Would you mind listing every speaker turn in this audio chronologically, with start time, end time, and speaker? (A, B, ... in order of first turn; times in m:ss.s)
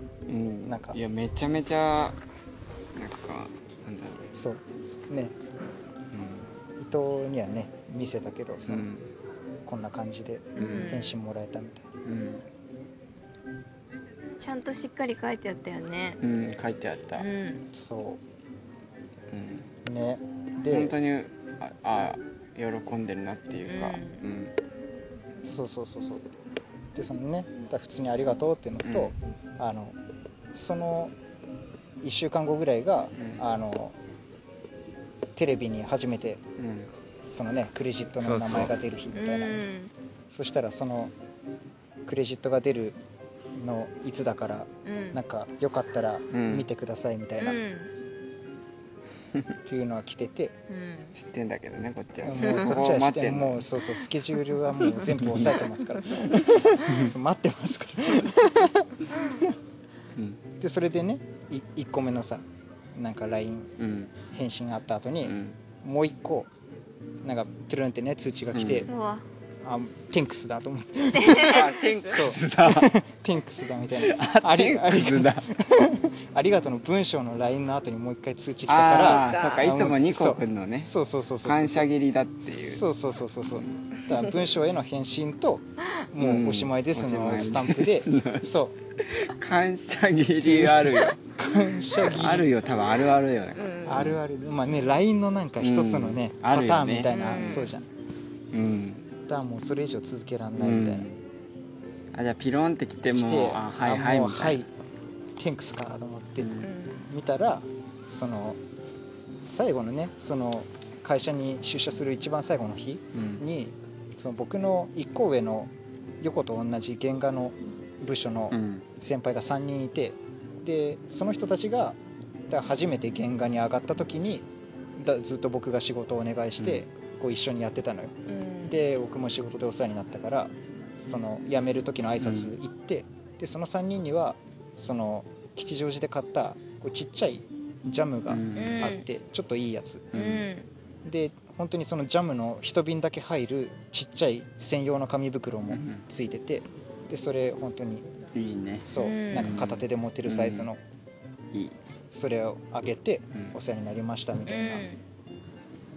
0:00.3-0:02.2 A
0:00.6-0:01.0 B
0:03.0-0:04.3 A
0:04.3-0:05.4 B
0:06.1-0:06.5 A
0:06.8-0:08.9 B
0:08.7-0:09.1 A
0:09.6-0:11.9 B
0:10.6-0:11.2 C
0:10.6-0:11.0 A
0:12.0-0:12.4 A
0:14.4-0:16.2 C
0:16.2-0:17.3 A
0:17.2-0:17.6 C
0:17.7-0:18.2 B
0:19.3-0:19.7 A
0:19.8-0:21.0 B
0:20.7-0:24.5 A
0:23.7-0:24.2 C
0:25.4-0:26.3 B
0:26.9-0:30.0 B
0:28.8-0:29.1 A
0:30.5-0:31.2 B
0:32.0-0:34.0 B
0:35.4-0:36.4 B
0:36.6-0:36.9 A
0:37.2-0:39.6 B
0:38.2-0:38.7 A
0:39.1-0:39.9 C
0:40.3-0:41.1 B
0:42.0-0:43.0 B
0:43.6-0:47.6 B
0:44.8-0:45.2 C
0:46.3-0:46.7 A
0:47.4-0:47.9 C
0:49.6-0:50.6 B
0:50.7-0:51.2 C
0:51.2-0:53.8 A
0:52.2-0:59.6 B
0:52.4-0:52.7 C
0:55.0-0:55.7 A
0:56.8-0:57.1 A
1:00.2-1:00.4 A
1:00.6-1:03.7 B
1:03.8-1:04.1 A
1:04.3-1:06.5 B
1:05.3-1:05.5 A
1:07.2-1:08.9 B
1:08.5-1:08.9 A
1:08.9-1:09.2 C
1:09.6-1:21.9 B
1:11.1-1:12.2 C
1:11.4-1:12.9 A
1:13.9-1:15.5 A
1:18.7-1:20.9 A
1:19.0-1:19.7 C
1:21.4-1:22.8 A
1:22.5-1:28.8 B
1:26.2-1:31.2 A
1:30.4-1:32.5 B
1:31.9-1:34.2 A
1:33.6-1:34.2 C
1:33.9-1:37.9 B
1:35.6-1:37.7 A
1:37.1-1:37.7 C
1:38.5-1:39.1 A
1:39.3-1:41.1 B
1:40.6-1:41.2 A
1:42.1-1:44.7 A
1:43.1-1:44.7 B
1:45.4-1:48.6 B
1:46.4-1:46.7 A
1:46.6-1:47.1 C
1:49.4-2:02.0 B
1:53.1-1:53.4 A
1:58.5-1:58.9 A
2:02.5-2:20.1 B
2:06.6-2:06.8 A
2:08.3-2:08.8 C
2:12.2-2:12.5 A
2:18.3-2:18.8 A
2:18.6-2:19.1 C
2:20.1-2:20.5 A
2:20.1-2:20.7 C
2:21.0-2:28.1 B
2:25.7-2:26.0 A
2:28.3-2:30.7 A
2:28.8-2:30.8 B
2:29.0-2:29.6 C
2:32.1-2:34.9 B
2:34.5-2:35.0 C